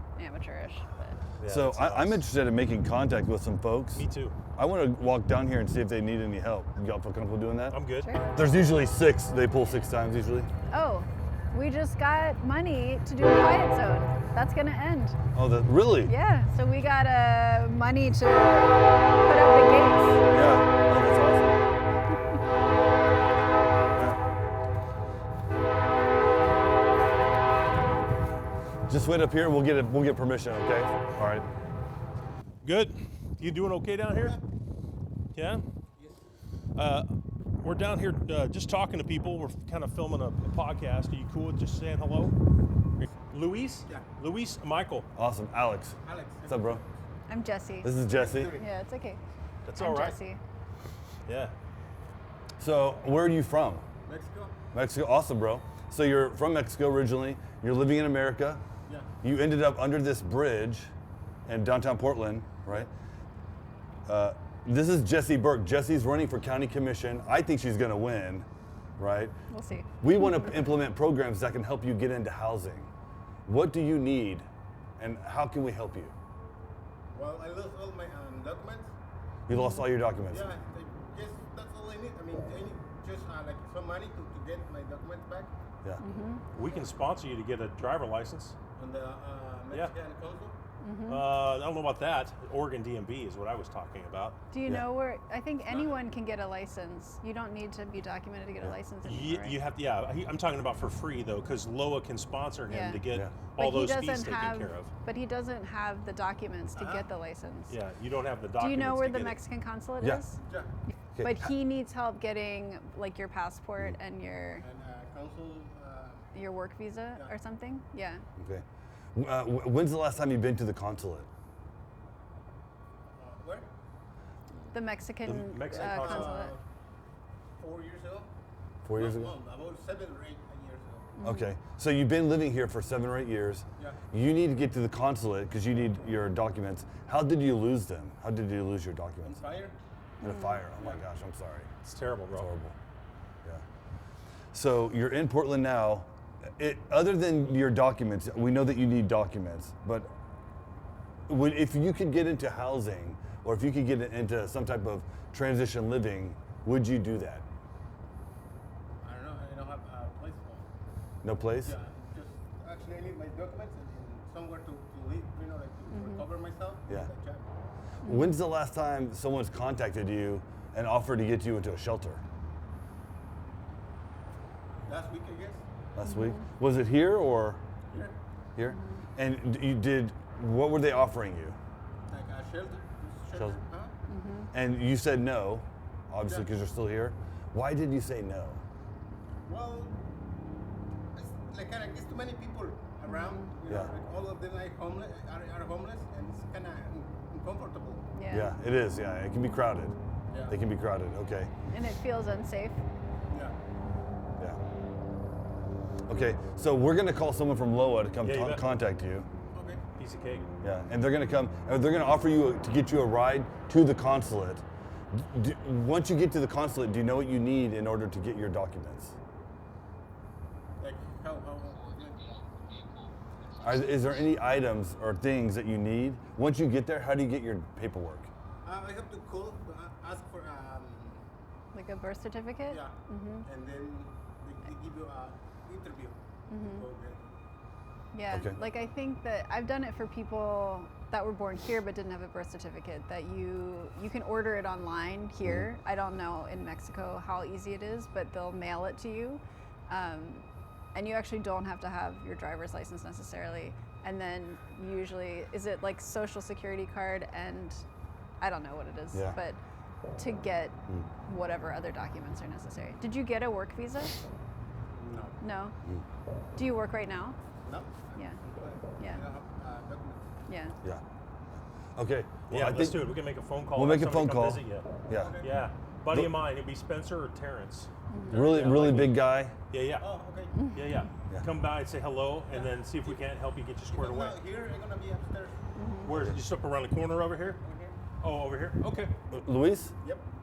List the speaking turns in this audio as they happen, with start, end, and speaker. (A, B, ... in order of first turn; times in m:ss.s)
0:00.2-0:01.2 A
0:01.4-0:02.3 B
0:01.5-0:04.0 C
0:03.9-0:04.4 B
0:04.6-0:07.8 C
0:07.7-0:08.1 B
0:08.3-0:10.5 C
0:10.7-0:15.2 A
0:15.3-0:16.1 C
0:16.0-0:20.2 A
0:20.3-0:21.6 C
0:28.9-0:31.5 C
0:32.6-0:34.4 B
0:35.4-0:35.6 B
0:36.8-0:37.1 B
0:37.6-0:42.4 B
0:43.0-0:45.1 B
0:45.2-0:46.8 C
0:46.0-0:46.9 D
0:47.3-0:49.2 A
0:47.8-0:48.6 C
0:48.1-0:48.7 D
0:49.6-0:50.2 B
0:49.8-0:50.4 A
0:51.3-0:51.5 B
0:52.6-0:53.8 C
0:54.1-0:54.6 D
0:54.7-0:58.6 C
0:59.2-1:00.9 C
1:01.5-1:02.9 C
1:04.1-1:08.5 C
1:09.0-1:09.3 C
1:09.5-1:09.9 A
1:10.0-1:12.9 C
1:13.5-1:14.5 C
1:15.0-1:16.1 C
1:17.1-1:18.9 D
1:19.5-1:20.5 C
1:19.5-1:19.8 A
1:20.3-1:25.5 D
1:26.0-1:26.4 A
1:26.5-1:28.6 B
1:28.8-1:30.6 D
1:30.8-1:31.3 A
1:31.1-1:34.4 B
1:34.5-1:39.6 A
1:35.7-1:36.0 D
1:39.0-1:44.9 B
1:42.7-1:43.0 A
1:43.6-1:47.8 A
1:46.8-1:47.1 D
1:47.7-1:49.4 B
1:48.6-1:50.4 A
1:50.4-1:50.7 D
1:51.2-1:51.5 C
1:51.2-1:54.6 A
1:54.6-1:56.3 D
1:56.3-1:58.2 A
1:58.4-1:58.6 C
1:59.2-2:01.3 C
2:03.1-2:03.7 D
2:04.7-2:06.5 A
2:05.2-2:06.4 B
2:05.6-2:06.6 D
2:07.6-2:08.3 D
2:08.9-2:09.3 C
2:09.0-2:11.1 D
2:11.2-2:11.5 A
2:11.2-2:19.4 C
2:19.2-2:19.8 D
2:20.2-2:20.6 A
2:20.2-2:21.7 C
2:21.8-2:22.5 B
2:22.3-2:22.8 C
2:24.5-2:30.1 C
2:31.3-2:37.4 C
2:39.0-2:40.7 D
2:41.2-2:41.7 C
2:41.6-2:47.5 D
2:45.9-2:46.3 A
2:48.0-2:52.2 C
2:48.0-2:48.4 A
2:54.9-2:55.6 D
2:56.0-2:57.6 C
2:56.0-2:56.4 A
2:57.9-2:58.2 D
2:58.6-3:01.6 C
2:58.6-2:59.0 A
3:02.1-3:03.9 D
3:04.1-3:04.5 A
3:04.5-3:08.6 C
3:09.5-3:10.0 D
3:11.2-3:18.0 D
3:13.1-3:13.5 A
3:18.2-3:18.5 A
3:18.3-3:20.0 C
3:20.3-3:20.6 D
3:20.5-3:21.5 C
3:21.7-3:22.8 A
3:23.3-3:23.6 D
3:26.1-3:29.3 C
3:28.2-3:28.6 B
3:29.5-3:29.8 D
3:30.0-3:30.5 B
3:30.6-3:39.2 C
3:40.8-3:42.4 D
3:43.6-3:48.3 C
3:48.6-3:51.2 D
3:51.7-3:53.5 A
3:52.7-3:57.3 D
3:56.5-3:56.9 A
3:58.1-4:10.4 A
3:58.3-3:58.6 C
4:05.4-4:05.7 C
4:11.0-4:17.8 A
4:18.4-4:19.6 A
4:20.2-4:24.2 A
4:24.9-4:25.4 D
4:25.4-4:25.8 A
4:26.6-4:27.4 A
4:27.6-4:30.3 D
4:29.0-4:29.2 A
4:30.5-4:30.8 A
4:32.0-4:33.1 C
4:32.5-4:34.9 B
4:33.7-4:35.4 C
4:35.1-4:35.5 D
4:35.4-4:40.0 B
4:36.1-4:36.4 C
4:38.1-4:38.5 A
4:38.3-4:39.6 C
4:40.0-4:40.6 D
4:40.7-4:44.4 B
4:42.5-4:42.9 D
4:43.9-4:45.6 D
4:45.8-4:46.1 A
4:46.0-4:47.6 B
4:46.1-4:46.4 C
4:47.6-4:48.0 D
4:48.2-4:49.1 B
4:49.3-4:50.0 C
4:50.0-4:50.3 D